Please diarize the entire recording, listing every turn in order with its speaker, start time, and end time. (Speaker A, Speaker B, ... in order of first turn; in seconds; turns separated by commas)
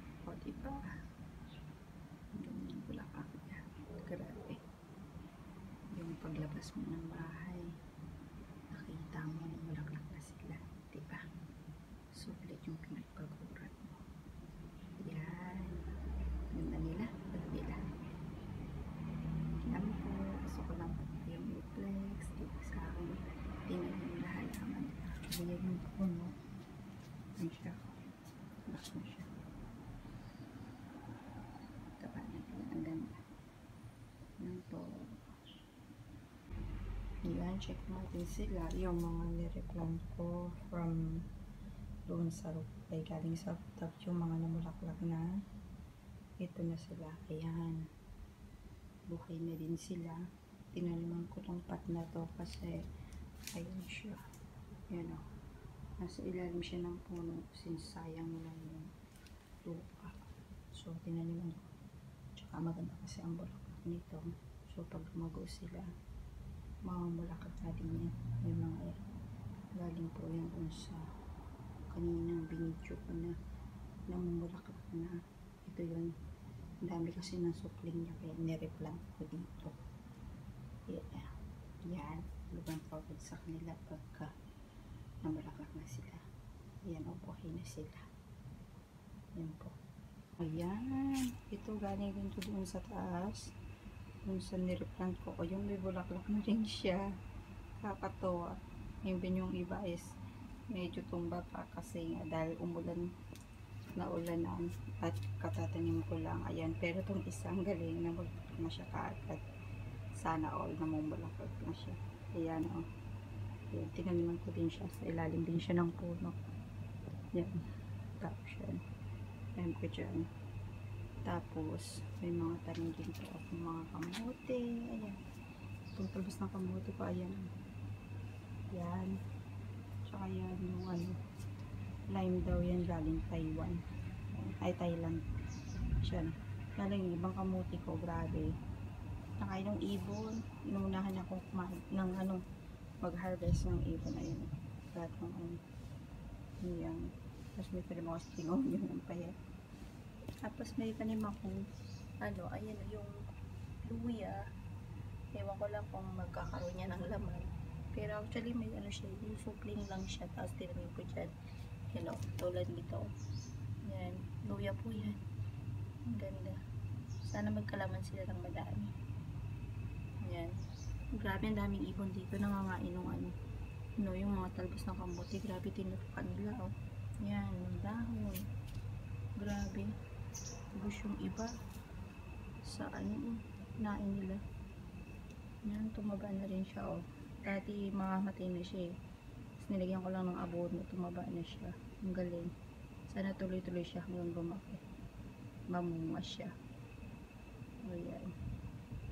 Speaker A: 0.2-0.9, Speaker A: 2.4-4.6, Speaker A: 5.9-7.7, Speaker A: 8.7-11.2, Speaker A: 12.1-14.0, Speaker A: 15.0-15.8, Speaker A: 16.5-17.9, Speaker A: 19.6-26.3, Speaker A: 27.4-28.1, Speaker A: 28.7-29.3, Speaker A: 32.0-33.1, Speaker A: 34.4-35.1, Speaker A: 37.2-41.2, Speaker A: 42.1-45.3, Speaker A: 46.4-47.8, Speaker A: 49.1-50.2, Speaker A: 50.7-52.8, Speaker A: 53.5-54.2, Speaker A: 54.9-55.2, Speaker A: 56.0-58.9, Speaker A: 59.6-61.7, Speaker A: 62.4-65.9, Speaker A: 66.8-69.0, Speaker A: 69.7-71.0, Speaker A: 71.9-73.3, Speaker A: 74.1-76.1, Speaker A: 76.8-79.8, Speaker A: 80.9-81.3, Speaker A: 81.9-84.3, Speaker A: 85.2-86.2, Speaker A: 86.8-88.0, Speaker A: 89.3-89.8, Speaker A: 90.4-93.5, Speaker A: 94.2-97.0, Speaker A: 97.8-100.0, Speaker A: 100.7-103.1, Speaker A: 104.0-109.4, Speaker A: 110.2-112.8, Speaker A: 113.7-116.3, Speaker A: 118.2-118.8, Speaker A: 119.6-120.2, Speaker A: 121.2-125.2, Speaker A: 126.0-127.5, Speaker A: 128.7-129.1, Speaker A: 130.0-131.2, Speaker A: 132.1-133.8, Speaker A: 134.3-135.2, Speaker A: 136.0-138.5, Speaker A: 139.4-142.4, Speaker A: 143.0-145.6, Speaker A: 146.6-147.0, Speaker A: 147.6-149.3, Speaker A: 150.4-151.6, Speaker A: 152.2-153.2, Speaker A: 153.8-154.4, Speaker A: 155.3-161.3, Speaker A: 161.9-163.1, Speaker A: 163.9-165.2, Speaker A: 166.1-166.6, Speaker A: 167.3-168.9, Speaker A: 170.2-170.5, Speaker A: 171.2-173.3, Speaker A: 174.0-178.4, Speaker A: 179.4-179.9, Speaker A: 180.8-181.5, Speaker A: 182.7-184.4, Speaker A: 185.7-188.8, Speaker A: 189.6-192.5, Speaker A: 193.1-194.8, Speaker A: 195.7-196.5, Speaker A: 197.8-198.3